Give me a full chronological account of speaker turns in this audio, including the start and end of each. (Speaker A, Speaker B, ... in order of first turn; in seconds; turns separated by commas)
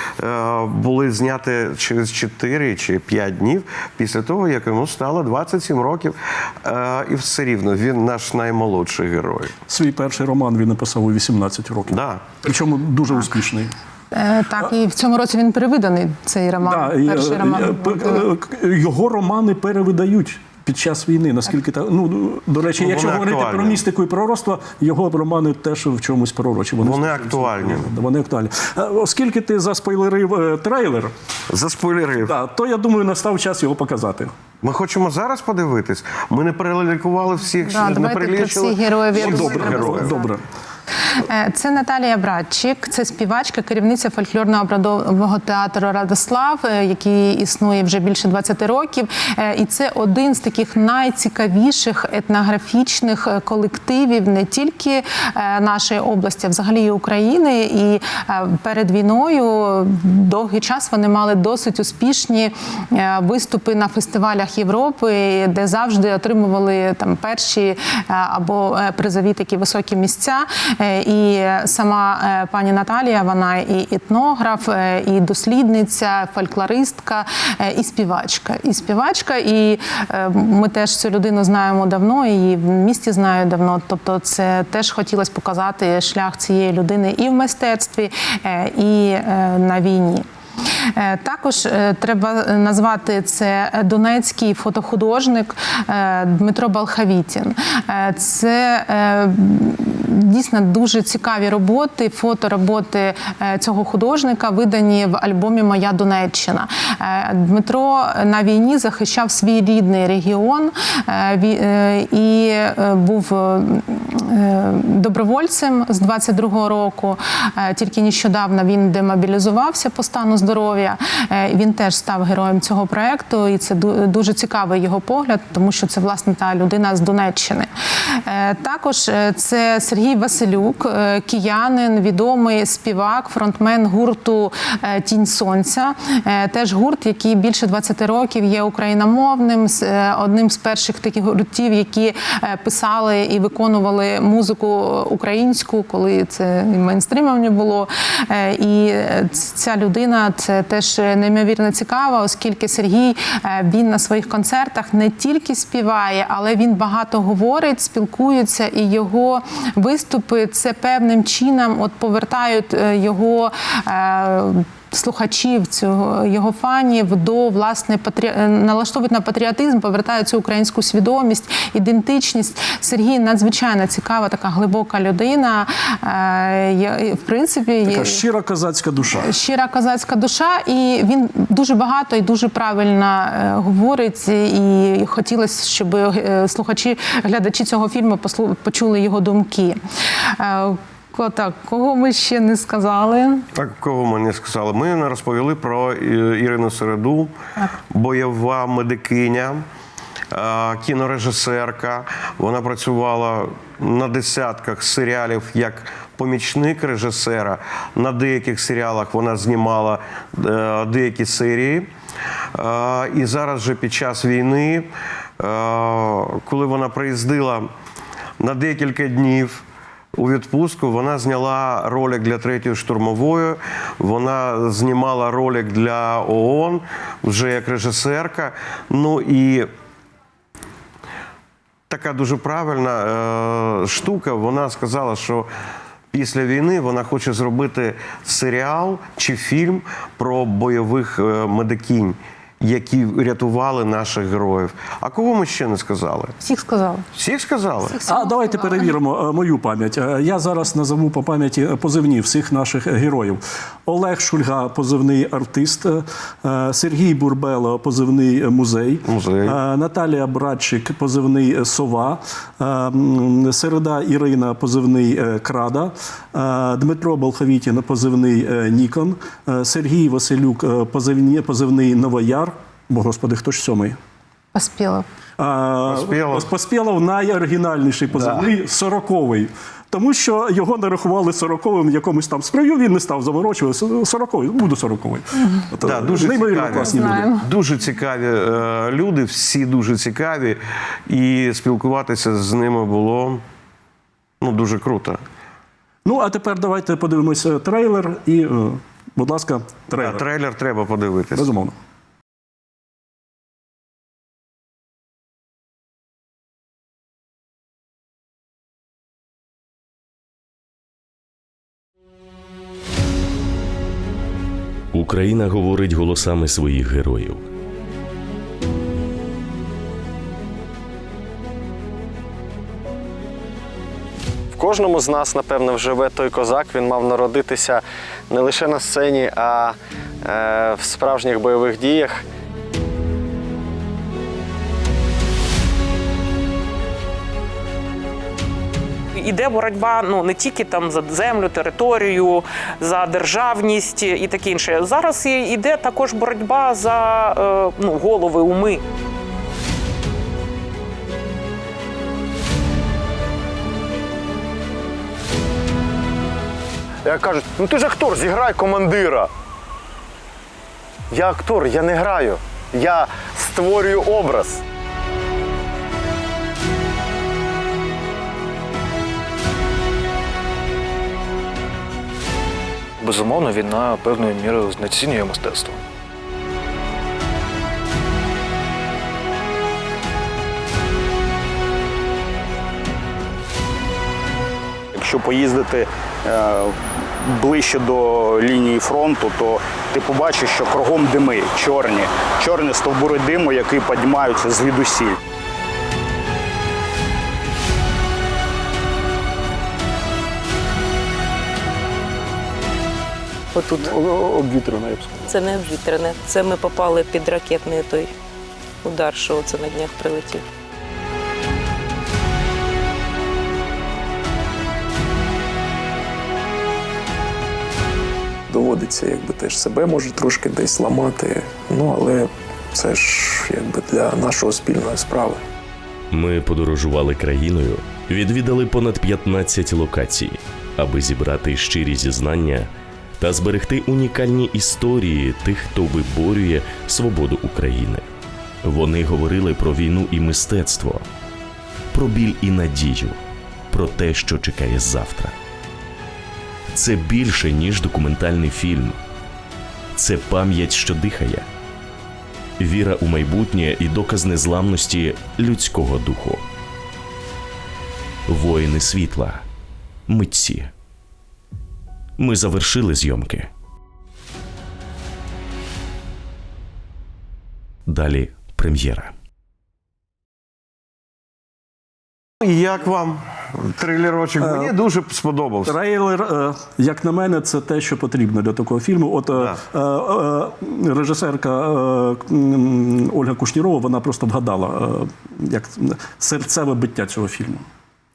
Speaker A: 0.2-9.5, Speaker B: 9.7-13.8, Speaker A: 11.9-12.2, Speaker C: 14.1-18.2, Speaker B: 16.6-31.1, Speaker A: 22.8-23.8, Speaker A: 26.8-27.9, Speaker A: 31.5-32.4, Speaker B: 32.2-34.3, Speaker A: 34.6-40.2, Speaker C: 37.7-40.2, Speaker B: 39.1-40.5, Speaker C: 41.2-90.3, Speaker C: 90.9-127.7, Speaker C: 128.2-178.2, Speaker B: 177.9-179.3, Speaker C: 179.2-193.5, Speaker A: 193.5-197.3, Speaker A: 197.9-199.7, Speaker A: 200.3-211.9, Speaker A: 212.6-217.7, Speaker A: 218.4-229.7, Speaker A: 231.9-235.5, Speaker A: 236.1-246.3, Speaker C: 246.4-247.1, Speaker A: 247.2-248.0, Speaker C: 247.9-248.9, Speaker B: 248.1-274.0, Speaker A: 259.1-259.6, Speaker C: 274.5-275.1, Speaker B: 275.4-287.3, Speaker A: 275.9-276.5, Speaker A: 278.1-278.5, Speaker A: 285.8-293.4, Speaker C: 286.7-287.4, Speaker A: 294.4-295.2, Speaker B: 296.1-300.2, Speaker A: 299.9-301.5, Speaker B: 301.4-301.8, Speaker D: 314.9-317.5, Speaker E: 324.5-332.2, Speaker F: 339.1-348.8, Speaker E: 357.1-359.3, Speaker E: 361.1-364.6, Speaker G: 373.0-375.8, Speaker H: 384.9-395.2, Speaker I: 403.6-403.9, Speaker B: 403.7-405.3, Speaker I: 405.2-408.1, Speaker I: 408.8-410.4, Speaker J: 418.5-425.4, Speaker D: 426.1-438.1, Speaker D: 438.6-441.0, Speaker D: 441.9-443.2, Speaker D: 443.7-445.4, Speaker D: 446.7-449.0, Speaker D: 450.0-451.5, Speaker D: 452.6-456.4, Speaker D: 458.3-459.4, Speaker D: 460.1-460.7, Speaker D: 462.2-463.5, Speaker D: 467.9-469.1, Speaker A: 472.4-475.8, Speaker B: 474.4-474.8, Speaker B: 475.7-487.7, Speaker A: 479.3-479.6